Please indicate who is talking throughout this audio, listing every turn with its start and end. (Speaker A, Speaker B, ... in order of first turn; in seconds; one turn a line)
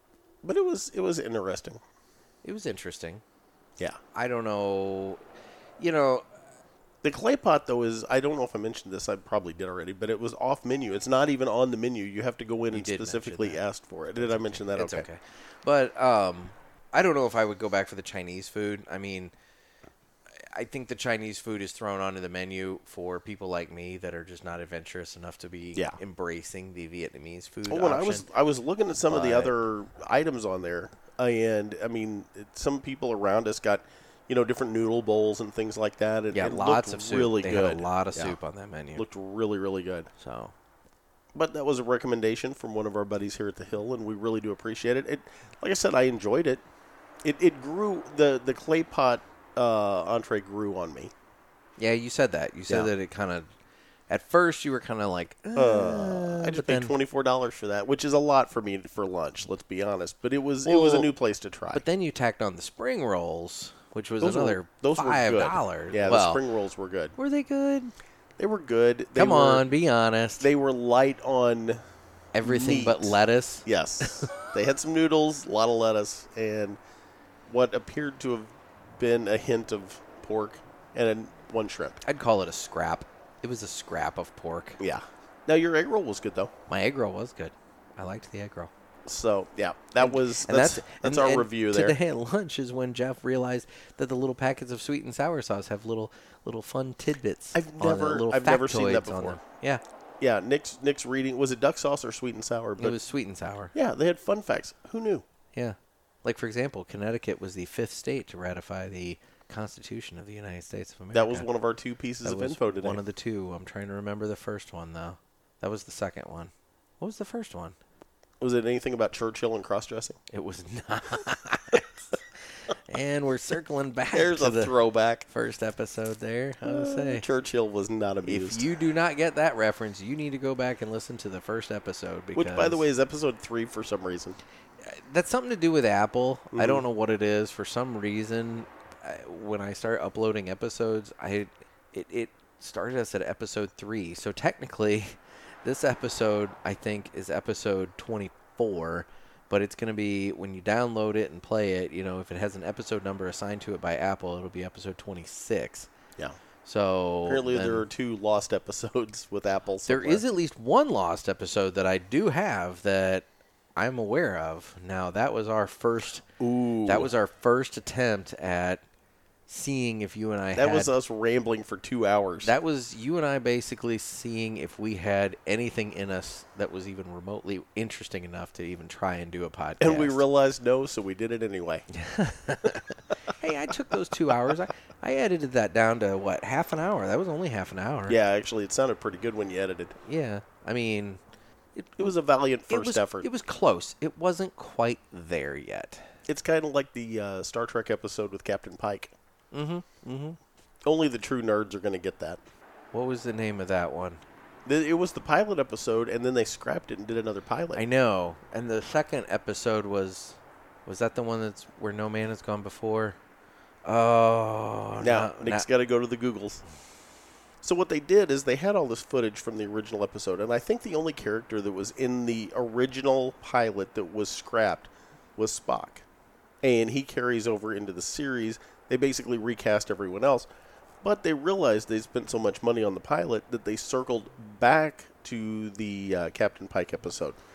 Speaker A: 0.4-1.8
Speaker B: 2.4-3.2
Speaker B: 4.2-5.2
Speaker B: 5.8-6.2
Speaker A: 7.0-15.1
Speaker B: 12.7-13.6
Speaker B: 14.2-19.3
Speaker B: 20.4-28.3
Speaker A: 27.7-38.4
Speaker B: 29.1-29.5
Speaker B: 36.3-39.0
Speaker A: 39.0-40.1
Speaker B: 40.2-40.5
Speaker A: 41.3-46.6
Speaker A: 47.2-51.1
Speaker B: 51.8-53.5
Speaker B: 54.1-57.0
Speaker A: 55.5-61.8
Speaker B: 60.6-61.1
Speaker B: 61.7-66.4
Speaker A: 64.2-67.2
Speaker B: 67.2-67.9
Speaker A: 68.4-69.7
Speaker B: 69.2-70.5
Speaker A: 70.4-71.8
Speaker B: 72.3-74.3
Speaker A: 72.4-76.8
Speaker A: 77.5-82.0
Speaker B: 82.0-84.8
Speaker A: 84.8-86.5
Speaker B: 86.7-88.7
Speaker A: 89.1-92.0
Speaker B: 90.0-99.8
Speaker A: 97.5-99.4
Speaker A: 100.2-103.0
Speaker B: 102.8-103.7
Speaker A: 103.8-105.2
Speaker B: 105.5-111.5
Speaker A: 111.1-113.0
Speaker B: 112.2-117.8
Speaker A: 118.4-120.2
Speaker B: 120.3-124.8
Speaker A: 124.1-125.3
Speaker B: 125.3-127.2
Speaker A: 126.7-128.6
Speaker B: 128.2-132.8
Speaker A: 132.3-134.4
Speaker B: 134.8-155.9
Speaker A: 136.5-136.8
Speaker B: 156.7-157.9
Speaker A: 157.3-160.2
Speaker B: 159.9-163.3
Speaker B: 163.8-166.3
Speaker A: 166.4-167.1
Speaker B: 166.8-168.8
Speaker B: 169.5-170.9
Speaker A: 170.6-172.5
Speaker B: 172.4-180.2
Speaker A: 179.8-181.9
Speaker B: 181.9-188.2
Speaker A: 188.1-190.0
Speaker B: 190.1-191.2
Speaker B: 191.8-192.1
Speaker A: 192.0-193.3
Speaker B: 192.7-196.1
Speaker A: 196.3-199.1
Speaker B: 199.5-200.4
Speaker A: 200.8-202.4
Speaker B: 202.9-204.2
Speaker A: 204.7-207.8
Speaker B: 207.8-213.2
Speaker B: 213.9-215.7
Speaker A: 215.0-216.6
Speaker A: 217.6-226.1
Speaker A: 226.6-230.5
Speaker A: 231.0-237.4